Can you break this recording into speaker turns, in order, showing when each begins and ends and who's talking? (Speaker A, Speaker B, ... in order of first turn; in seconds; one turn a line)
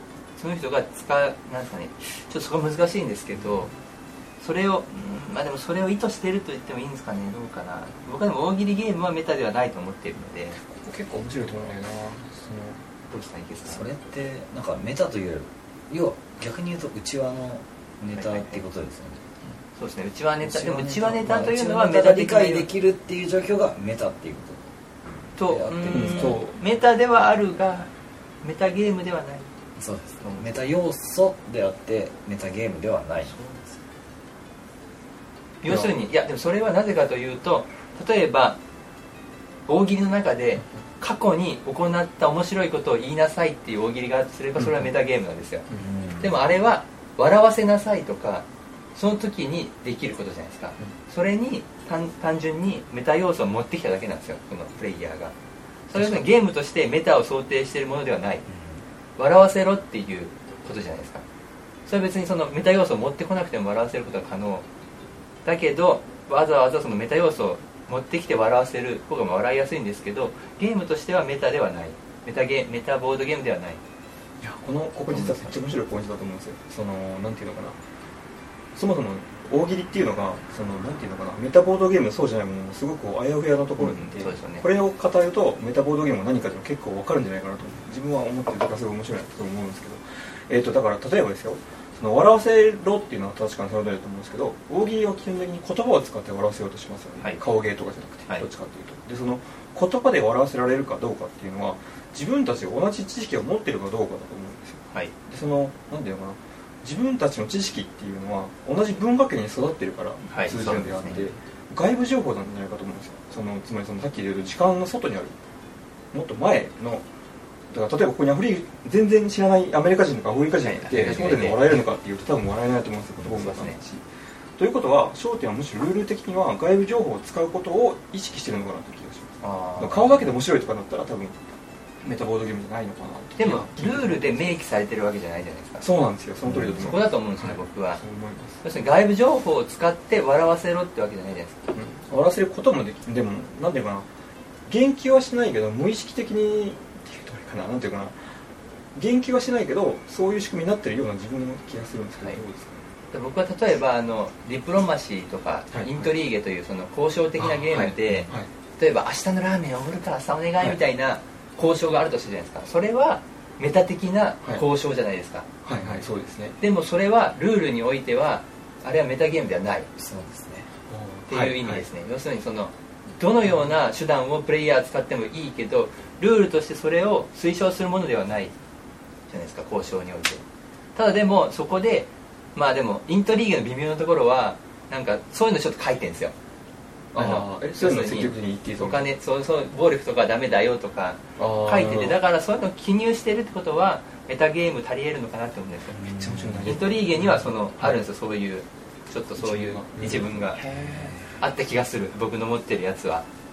Speaker A: 0.4-3.7
Speaker A: 4.4-10.6
Speaker B: 10.6-12.8
Speaker A: 13.1-13.9
Speaker C: 13.7-19.2
Speaker A: 18.1-18.6
Speaker A: 19.8-22.7
Speaker C: 20.4-26.4
Speaker A: 25.4-27.9
Speaker B: 25.9-26.6
Speaker A: 28.4-29.5
Speaker C: 29.8-33.5
Speaker A: 33.3-33.6
Speaker A: 35.6-38.6
Speaker B: 35.7-35.9
Speaker A: 39.7-45.7
Speaker B: 44.6-44.9
Speaker C: 45.8-46.3
Speaker A: 46.2-55.3
Speaker A: 55.9-58.5
Speaker B: 56.0-56.2
Speaker C: 58.5-58.8
Speaker A: 59.2-61.2
Speaker A: 61.9-64.7
Speaker A: 65.5-73.8
Speaker B: 74.4-77.8
Speaker A: 75.1-75.5
Speaker B: 78.8-115.3
Speaker A: 83.8-84.6
Speaker A: 110.3-111.3
Speaker B: 116.1-117.0
Speaker B: 117.7-124.0
Speaker A: 120.8-121.6
Speaker A: 123.3-123.8
Speaker B: 124.6-131.4
Speaker A: 129.4-130.3
Speaker B: 132.0-134.4
Speaker A: 133.4-135.9
Speaker B: 135.8-138.6
Speaker A: 136.5-138.0
Speaker A: 138.6-141.6
Speaker B: 141.7-144.1
Speaker B: 144.7-148.3
Speaker B: 148.9-152.8
Speaker A: 153.1-165.5
Speaker B: 155.7-156.1
Speaker B: 157.4-158.5
Speaker B: 165.6-166.6
Speaker A: 166.6-169.9
Speaker C: 170.0-170.7
Speaker B: 170.9-171.8
Speaker A: 171.3-178.5
Speaker A: 179.3-180.4
Speaker A: 180.9-186.3
Speaker B: 187.1-189.0
Speaker A: 187.2-196.0
Speaker B: 191.4-192.2
Speaker C: 195.9-196.8
Speaker B: 196.0-198.0
Speaker A: 196.7-200.6
Speaker B: 199.4-201.2
Speaker C: 200.8-201.3
Speaker A: 201.4-203.2